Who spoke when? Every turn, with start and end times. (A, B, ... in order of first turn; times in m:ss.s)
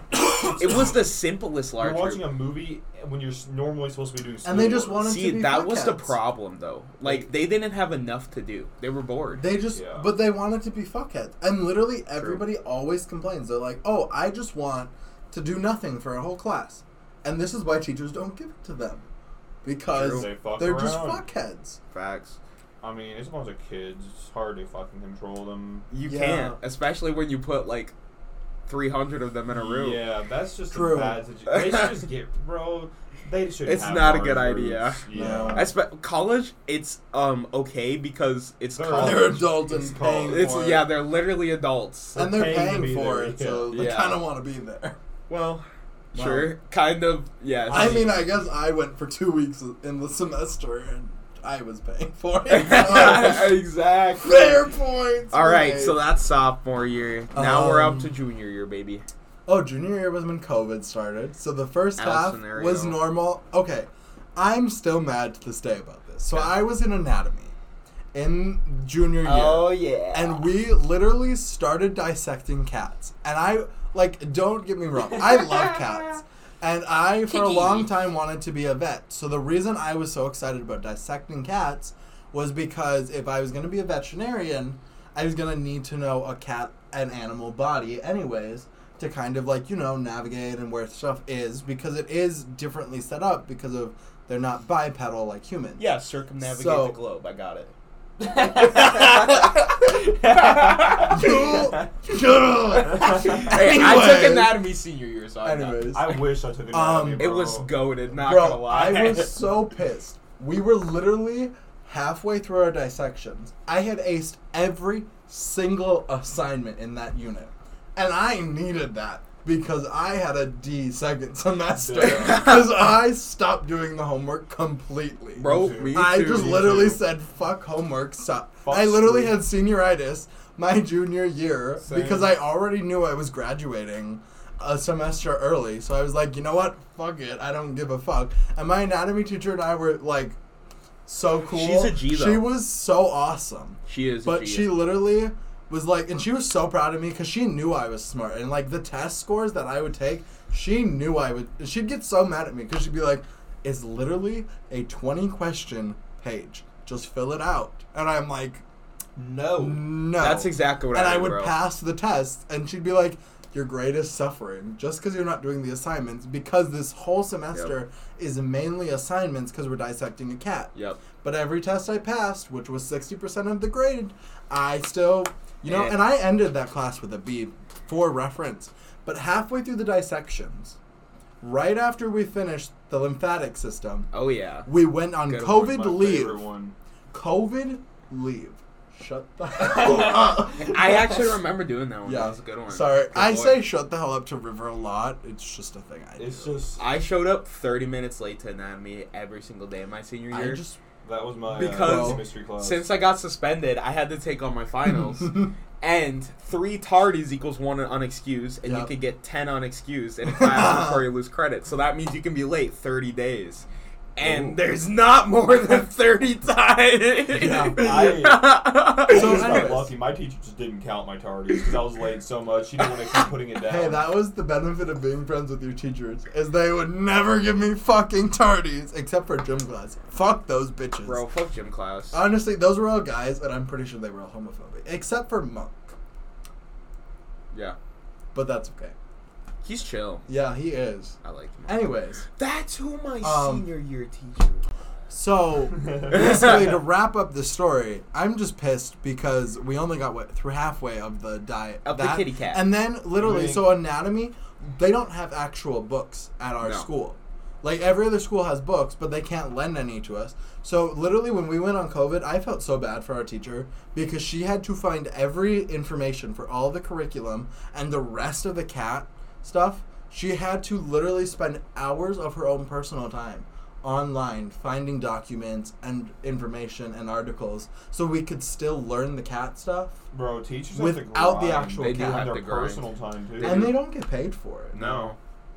0:00.4-0:02.2 A
0:00.6-0:00.9 B
0:01.8-0:05.1 C
0:04.4-0:06.1 B
0:05.0-0:09.4 A
0:09.4-0:19.1 B
0:09.7-0:10.1 C
0:12.2-0:12.4 A
0:19.6-0:21.8 B
0:19.9-0:20.3 A
0:19.9-0:21.2 C
0:21.9-0:22.4 A
0:22.8-0:25.9 C
0:25.9-0:27.9 A
0:26.0-0:26.6 B
0:28.7-0:30.0 A
0:29.5-0:35.7 C
0:30.7-0:31.2 B
0:31.5-0:32.0 A
0:33.6-0:39.4 A
0:35.1-0:35.7 B
0:38.8-0:40.8 C
0:39.0-0:40.8 B
0:40.3-0:42.2 A
0:42.1-0:43.7 C
0:42.2-0:45.0 B
0:43.7-0:44.2 A
0:45.3-0:48.2 A
0:46.1-0:46.5 B
0:47.7-0:53.6 B
0:52.5-0:54.6 A
0:54.2-0:56.0 B
0:55.3-0:59.0 A
0:57.3-0:58.1 B
0:59.4-1:07.5 B
1:02.0-1:03.0 A
1:08.1-1:35.8 B
1:09.2-1:10.4 A
1:15.1-1:16.2 A
1:17.3-1:17.9 A
1:35.8-1:41.9 A
1:36.4-1:37.0 B
1:41.0-1:44.6 B
1:42.7-1:45.9 A
1:45.4-1:47.2 B
1:45.9-1:47.7 C
1:47.2-1:49.4 A
1:48.2-2:20.4 B
2:01.8-2:02.6 C
2:02.0-2:02.6 A
2:05.4-2:06.7 A
2:05.4-2:07.0 C
2:08.6-2:09.4 C
2:11.8-2:12.3 A
2:21.0-2:38.6 B
2:21.5-2:22.5 A
2:23.9-2:24.8 A
2:39.2-2:41.6 A
2:39.6-3:00.8 B
2:50.7-2:51.0 A
2:55.6-2:55.9 A
3:01.4-3:04.1 B
3:04.1-3:04.7 A
3:04.6-3:06.4 B
3:05.2-3:05.6 A
3:05.4-3:06.7 C
3:07.1-3:11.2 B
3:09.6-3:13.6 A
3:12.0-3:16.6 B
3:16.2-3:16.8 C
3:16.8-3:20.6 A
3:20.3-3:20.8 B
3:21.0-3:22.9 C
3:21.5-3:39.7 A
3:21.8-3:22.2 B
3:28.6-3:28.9 B
3:30.4-3:31.0 B
3:34.2-3:34.6 C
3:37.3-3:38.2 B
3:37.7-3:44.0 C
3:39.1-3:39.9 B
3:43.6-3:51.2 B
3:51.0-3:52.2 A
3:52.1-3:55.9 B
3:58.3-3:58.9 B
3:59.6-4:00.3 A
4:00.3-4:02.2 B
4:01.2-4:04.7 A
4:03.2-4:03.6 B
4:05.1-4:40.0 B
4:05.8-4:06.6 C
4:06.1-4:06.7 A
4:11.8-4:12.6 A
4:13.1-4:13.7 C
4:16.6-4:16.9 A
4:40.1-4:43.8 C
4:40.7-4:42.3 B
4:41.8-4:42.9 A
4:43.4-4:43.8 A
4:43.4-4:44.8 B
4:44.7-4:45.2 C
4:44.7-4:45.2 A